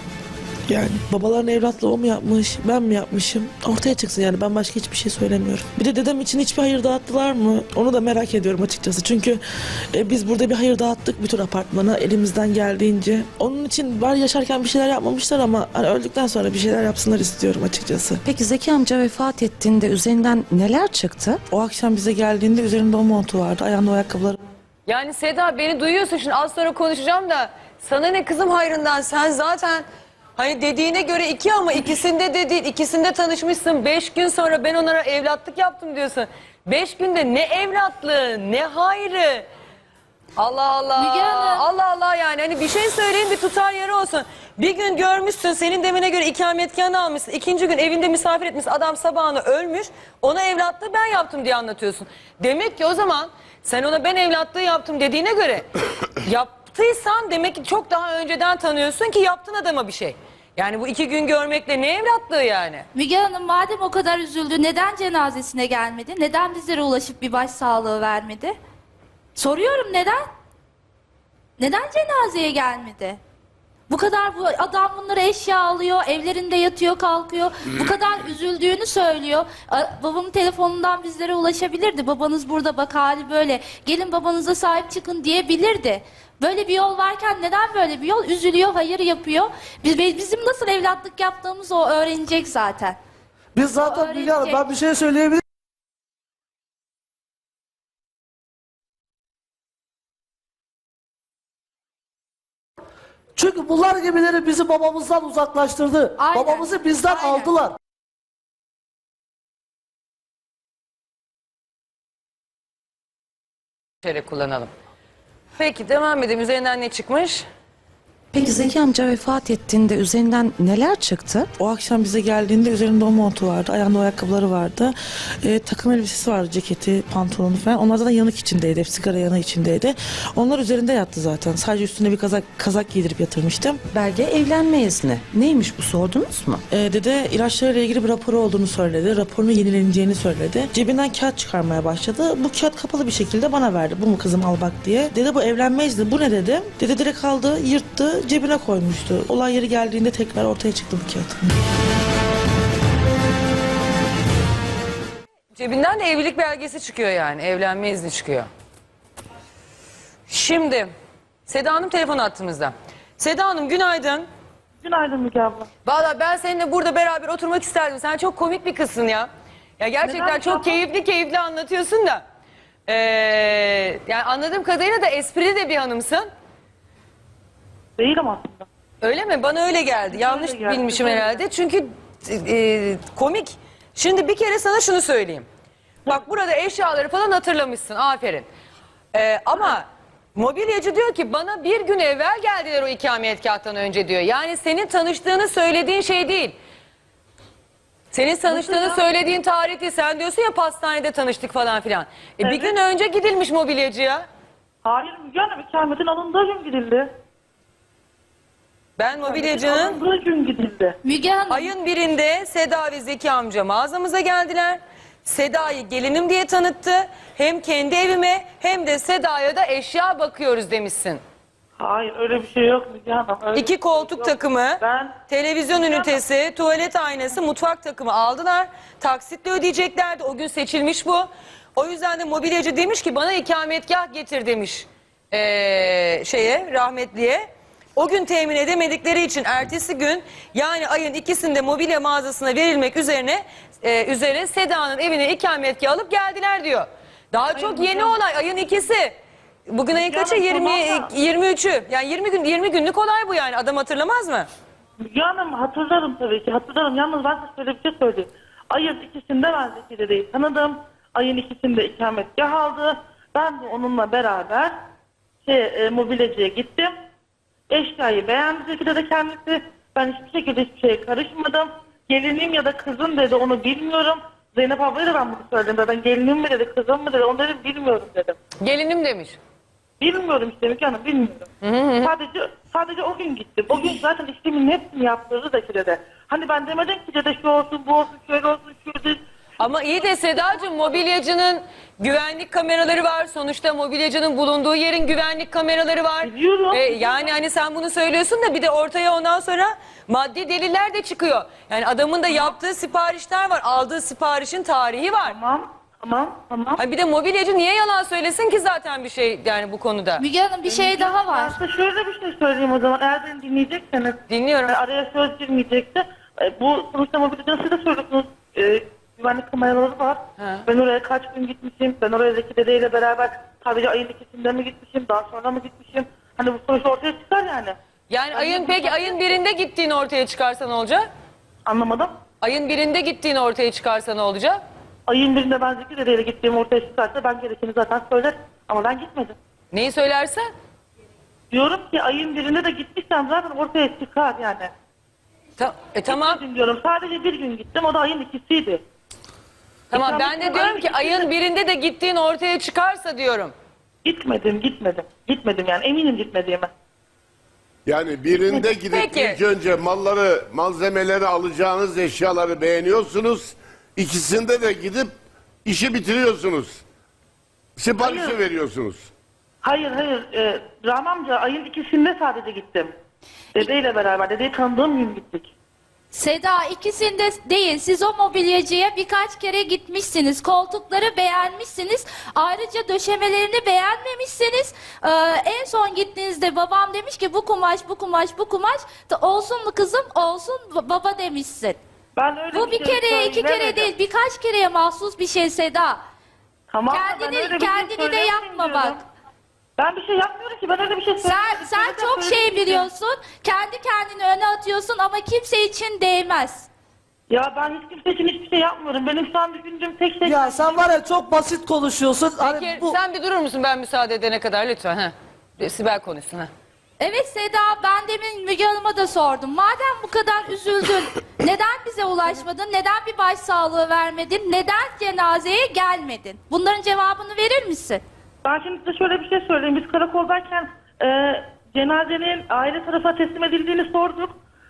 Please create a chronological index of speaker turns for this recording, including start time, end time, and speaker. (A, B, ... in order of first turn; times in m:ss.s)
0:00.7-0:09.4 A
0:09.9-0:18.2 A
0:18.2-0:21.4 B
0:21.5-0:24.4 A
0:24.9-0:29.8 C
0:30.4-0:39.5 C
0:40.4-0:55.7 C
0:41.0-0:41.7 D
0:56.2-1:02.9 C
1:02.9-1:08.6 D
1:09.4-1:10.2 D
1:11.6-1:13.2 D
1:13.9-1:33.0 D
1:33.6-1:35.4 E
1:33.8-1:34.7 D
1:43.4-1:47.8 E
1:46.2-1:47.5 D
1:54.0-1:54.7 C
1:55.6-1:57.4 C
1:58.3-2:01.5 B
2:01.6-2:13.8 A
2:13.9-2:16.6 B
2:16.7-2:31.5 A
2:35.6-2:38.5 C
2:40.3-2:40.9 C
2:41.5-2:44.2 C
2:44.8-2:45.7 F
2:45.8-2:49.3 C
2:49.8-2:52.2 C
2:50.0-2:50.8 F
2:52.9-2:56.3 C
2:58.0-2:58.7 F
2:59.0-3:05.5 C
3:00.1-3:01.4 F
3:06.1-3:08.5 C
3:09.1-3:16.6 C
3:18.1-3:24.2 C
3:18.5-3:19.0 F
3:22.4-3:22.8 F
3:24.8-3:27.1 F
3:29.0-3:30.0 C
3:29.2-3:31.0 F
3:31.0-3:31.7 D
3:31.5-3:41.2 C
3:41.8-3:46.2 F
3:43.6-4:09.2 C
4:07.5-4:08.2 F
4:09.7-4:14.5 C
4:09.9-4:11.1 F
4:15.0-4:24.7 F
4:25.4-4:26.9 F
4:27.7-4:38.4 F
4:38.6-4:39.4 C
4:40.0-4:41.5 F
4:41.6-4:42.1 C
4:42.0-4:50.4 F
4:49.6-5:05.4 C
4:56.2-4:57.3 F
5:05.2-5:06.8 F
5:06.8-5:10.2 C
5:10.2-5:11.6 D
5:10.6-5:27.8 F
5:14.3-5:14.8 C
5:20.4-5:20.6 C
5:28.1-5:31.1 C
5:28.3-5:29.2 F
5:31.7-5:32.1 F
5:32.4-5:34.6 C
5:35.1-5:39.4 F
5:39.7-5:40.5 C
5:41.5-5:44.7 F
5:45.6-5:46.4 C
5:46.1-5:48.8 F
5:49.9-5:53.5 C
5:49.9-5:51.3 F
5:54.0-5:56.7 F
5:57.9-6:06.8 G
5:58.5-5:59.4 C
6:07.8-6:09.1 G
6:08.0-6:08.4 F
6:09.6-6:12.9 F
6:13.6-6:15.5 F
6:16.1-6:31.8 D
6:32.2-6:33.9 F
6:32.5-6:36.0 D
6:36.7-6:39.0 F
6:36.9-6:39.0 D
6:39.8-6:42.9 F
6:41.2-6:46.7 D
6:47.3-6:50.6 F
6:50.2-6:53.0 E
6:52.3-6:56.5 C
6:57.0-7:08.0 D
7:08.4-7:14.3 F